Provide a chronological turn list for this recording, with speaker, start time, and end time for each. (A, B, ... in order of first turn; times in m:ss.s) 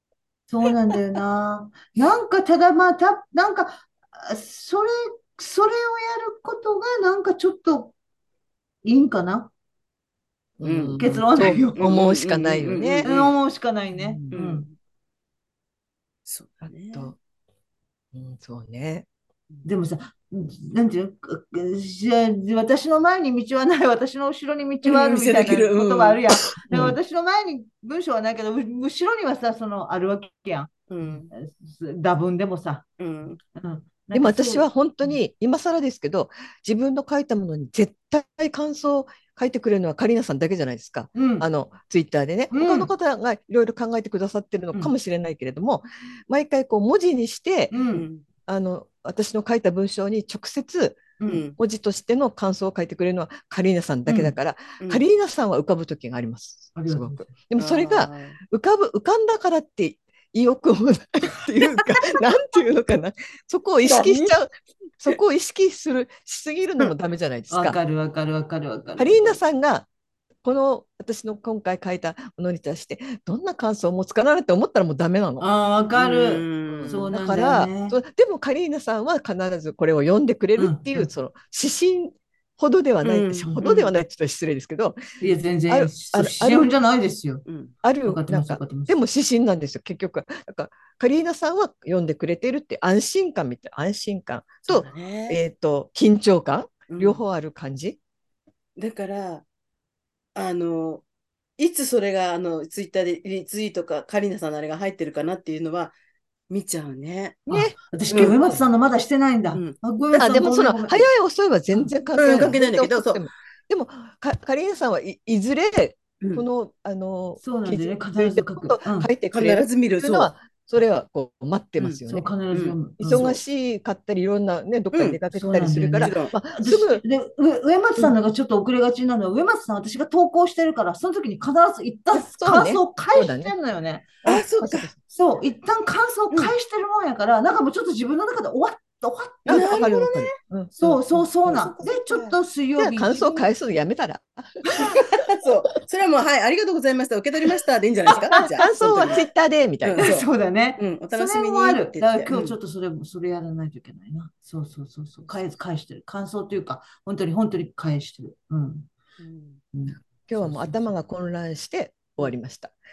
0:00.5-0:07.9 A
0:08.8-0:09.5 A
0:10.6-0:13.1 B
0:10.6-0:11.0 C
0:11.0-0:12.0 A
0:11.7-0:13.4 C
0:13.0-0:14.6 A
0:13.9-0:14.3 B
0:14.3-0:14.7 C
0:16.2-0:17.1 C
0:16.6-0:17.2 B
0:18.1-0:19.0 B
0:19.6-0:35.2 A
0:24.8-0:26.2 C
0:26.7-0:27.0 B
0:30.9-0:31.3 C
0:33.0-0:33.4 C
0:34.1-0:47.7 B
0:41.1-0:41.5 A
0:42.5-0:42.9 A
0:47.7-0:48.0 A
0:47.9-0:48.2 C
0:48.4-1:07.8 B
0:51.2-0:51.6 C
0:56.7-0:57.3 A
0:57.6-0:58.4 C
1:03.8-1:04.3 C
1:07.5-1:09.4 A
1:09.0-1:09.9 B
1:10.4-1:15.4 B
1:15.4-1:18.0 A
1:16.0-1:17.1 C
1:16.7-1:25.2 B
1:20.6-1:21.1 A
1:23.0-1:23.9 C
1:25.2-1:27.4 A
1:25.7-1:26.7 B
1:27.4-1:27.7 C
1:27.8-1:38.0 B
1:28.0-1:29.0 A
1:34.7-1:35.4 C
1:36.9-1:37.2 C
1:38.8-1:39.4 C
1:40.3-1:41.0 C
1:41.6-1:45.9 C
1:46.5-1:47.4 C
1:47.5-1:51.1 A
1:47.5-1:47.8 B
1:48.1-1:48.6 C
1:50.1-2:02.3 B
1:51.7-1:52.5 A
1:52.1-1:53.2 C
1:57.4-1:59.1 A
1:59.3-2:00.3 C
2:02.1-2:03.4 A
2:02.5-2:03.3 C
2:03.0-2:07.0 B
2:04.9-2:05.2 C
2:05.3-2:14.2 A
2:06.0-2:06.3 C
2:12.1-2:13.5 B
2:14.2-2:14.9 C
2:14.2-2:14.9 B
2:15.1-2:20.2 A
2:19.4-2:25.2 B
2:19.5-2:20.3 C
2:20.8-2:23.5 A
2:24.8-2:29.2 C
2:28.5-2:30.2 B
2:29.8-2:30.2 C
2:30.0-2:38.9 A
2:30.8-2:32.6 C
2:39.2-2:39.6 C
2:39.7-2:40.9 A
2:40.3-2:42.7 B